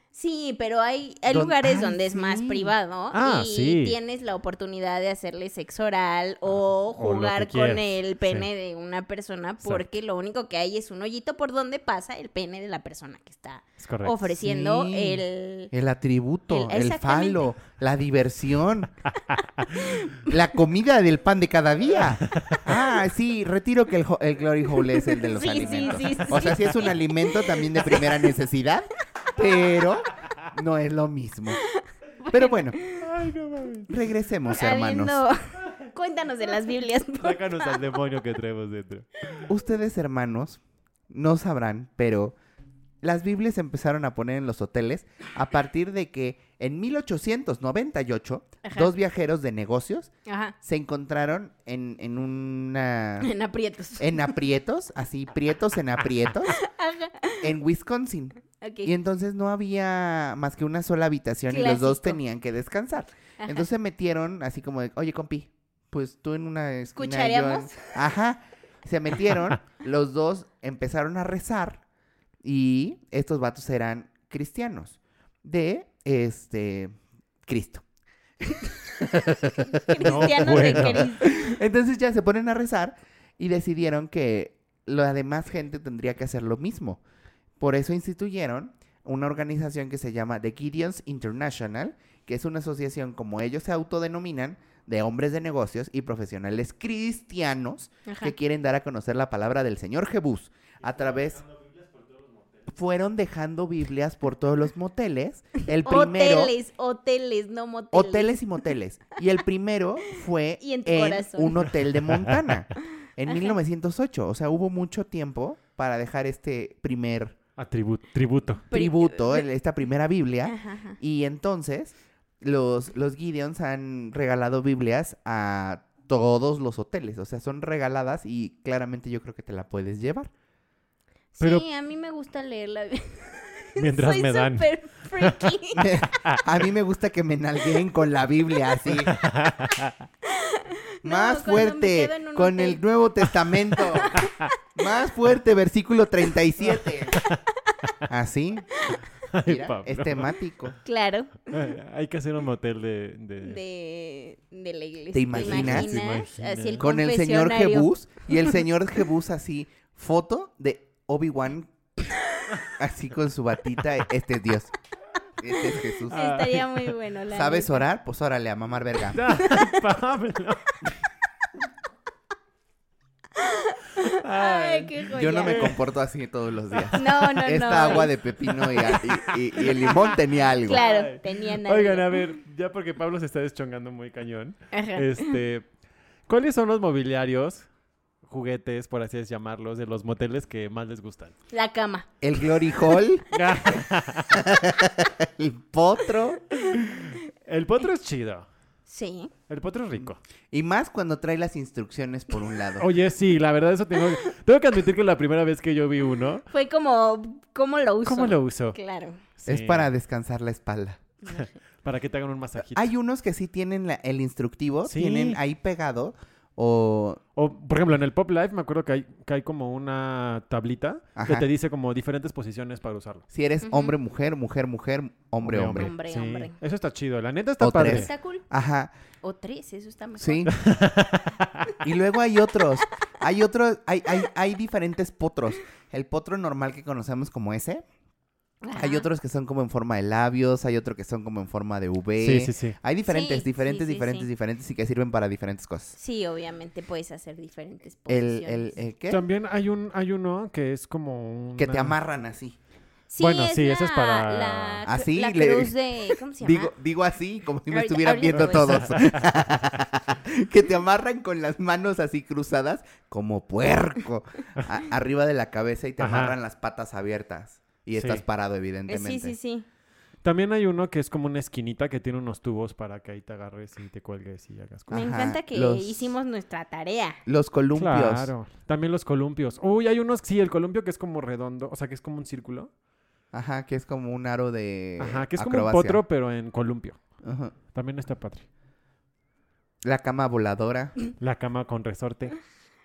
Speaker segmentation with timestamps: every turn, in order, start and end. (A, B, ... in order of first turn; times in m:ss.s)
0:00.1-0:15.7 A
0:01.3-0:02.7 B
0:03.1-0:04.0 C
0:06.5-0:08.5 C
0:13.8-0:14.2 C
0:14.4-0:18.9 B
0:16.5-0:17.5 A
0:19.8-0:20.2 A
0:20.2-0:31.6 B
0:22.2-0:22.6 C
0:24.9-0:28.3 A
0:26.0-0:26.5 C
0:31.6-0:33.1 A
0:32.3-0:32.8 B
0:33.0-0:33.9 C
0:33.9-0:35.2 B
0:34.5-0:37.9 A
0:37.2-0:39.4 C
0:39.5-0:42.4 B
0:43.0-0:50.1 B
0:48.6-0:48.9 A
0:50.2-0:50.6 A
0:50.6-0:53.3 B
0:53.2-0:54.3 A
0:54.0-0:56.6 B
0:56.5-0:57.4 A
0:57.4-1:11.8 B
0:58.6-0:58.9 A
1:01.5-1:02.2 A
1:03.4-1:03.6 A
1:07.0-1:07.9 A
1:12.4-1:16.9 B
1:17.4-1:17.8 B
1:19.1-1:27.0 B
1:19.2-1:21.5 A
1:20.0-1:21.1 C
1:27.6-1:41.4 B
1:38.0-1:38.3 A
1:41.0-1:42.6 C
1:42.7-1:46.5 B
1:45.8-1:48.4 A
1:47.9-1:57.4 B
1:50.6-1:51.7 A
1:51.9-1:52.6 C
1:53.3-1:53.6 A
1:57.6-1:58.6 C
1:58.7-1:59.5 A
1:58.7-2:10.3 B
2:00.4-2:01.0 A
2:11.3-2:15.8 A
2:11.4-2:11.6 C
2:13.8-2:15.6 C
2:15.8-2:19.2 B
2:16.1-2:16.4 C
2:19.0-2:20.0 C
2:20.2-2:22.8 A
2:21.0-2:24.2 B
2:23.9-2:24.3 A
2:24.2-2:24.5 C
2:24.7-2:27.2 B
2:28.1-2:28.7 B
2:28.8-2:29.0 A
2:29.2-2:30.3 C
2:29.4-2:30.8 B
2:30.8-2:31.6 A
2:31.5-2:33.6 C
2:33.4-2:38.6 A
2:35.1-2:36.0 B
2:35.3-2:36.8 C
2:36.8-2:41.7 B
2:42.8-2:44.7 B
2:45.4-2:46.2 B
2:46.1-2:46.9 C
2:46.1-2:47.8 A
2:47.3-2:49.2 B
2:49.1-2:51.0 C
2:49.4-2:49.9 A
2:53.3-2:55.8 A
2:54.0-2:55.8 C
2:55.1-3:00.8 B
2:56.7-2:57.1 C
2:56.9-2:59.0 A
2:58.7-3:05.7 C
3:00.6-3:02.2 A
3:04.7-3:05.4 A
3:06.3-3:07.7 C
3:08.2-3:11.4 C
3:11.5-3:12.2 A
3:12.2-3:13.3 B
3:13.3-3:14.6 C
3:14.3-3:16.4 B
3:17.4-3:18.5 C
3:18.9-3:19.3 A
3:19.5-3:20.2 C
3:20.5-3:22.9 B
3:22.8-3:26.4 C
3:26.5-3:29.2 A
3:28.0-3:28.8 C
3:29.4-3:29.9 C
3:29.5-3:31.0 B
3:31.3-3:32.9 C
3:32.6-3:37.2 B
3:34.8-3:35.4 C
3:37.4-3:43.2 C
3:41.2-3:41.5 B
3:43.3-3:45.9 B
3:43.6-3:43.9 A
3:45.4-3:48.1 C
3:45.7-3:46.6 A
3:47.6-3:48.9 B
3:47.8-3:48.4 A
3:49.2-3:50.5 A
3:50.2-3:50.5 B
3:50.5-3:51.7 C
3:51.8-3:57.8 B
3:58.6-3:59.0 A
3:58.8-4:06.0 B
4:02.2-4:02.8 C
4:03.1-4:04.3 A
4:06.0-4:08.8 A
4:08.1-4:09.2 B
4:09.1-4:12.0 C
4:11.6-4:12.6 B
4:13.1-4:16.7 A
4:13.2-4:14.8 C
4:14.8-4:15.7 B
4:16.4-4:29.3 B
4:17.7-4:19.1 A
4:18.3-4:19.3 C
4:26.0-4:26.4 C
4:28.0-4:28.2 C
4:28.9-4:29.6 A
4:30.2-4:35.1 C
4:34.9-4:36.1 B
4:34.9-4:37.2 A
4:37.2-4:38.3 B
4:37.7-4:42.7 C
4:43.3-4:46.0 B
4:45.0-4:47.0 C
4:47.2-4:47.5 B
4:47.7-4:48.4 C
4:49.8-4:51.0 B
4:51.2-4:52.3 C